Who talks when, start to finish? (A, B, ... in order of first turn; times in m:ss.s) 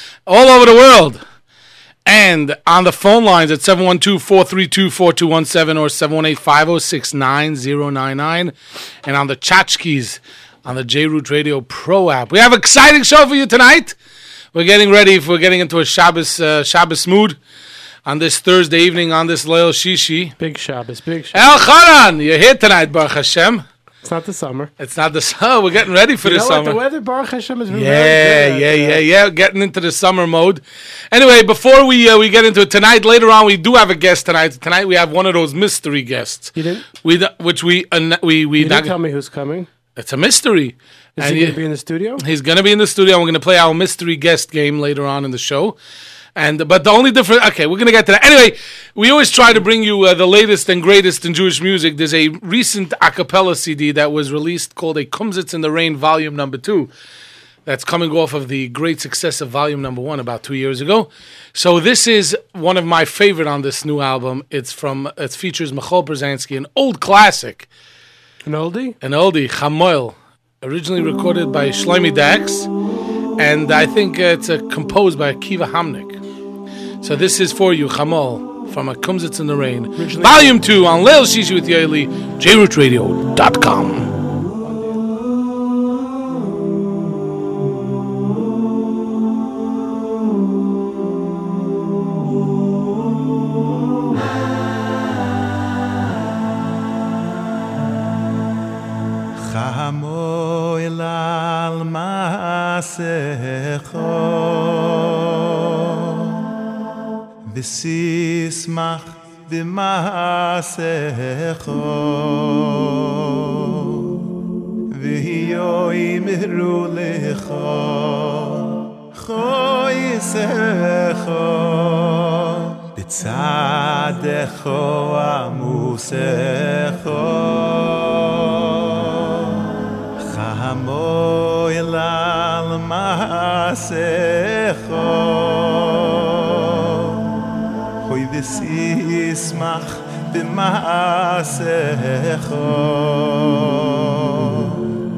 0:00.2-0:01.2 A
0:02.0-0:14.0 A
0:14.5-0:17.4 A
0:18.0-0:20.3 A
0:20.4-0:21.6 B
0:21.3-0:23.6 A
0:24.0-0:24.7 B
0:24.8-0:26.8 A
0:26.2-0:29.0 B
0:27.7-0:38.9 A
0:36.6-0:36.9 B
0:38.6-0:39.7 B
0:40.0-0:41.6 A
0:41.2-0:42.2 B
0:42.2-0:45.8 A
0:46.4-0:56.9 A
0:57.6-1:07.7 A
1:08.4-1:09.0 B
1:09.0-1:12.7 A
1:13.4-1:16.2 A
1:17.0-1:24.1 A
1:20.0-1:20.6 B
1:24.6-1:25.0 B
1:39.4-1:46.4 C
1:47.5-1:54.2 C
1:54.9-2:09.7 C
2:10.2-2:17.2 C
2:18.0-2:24.9 C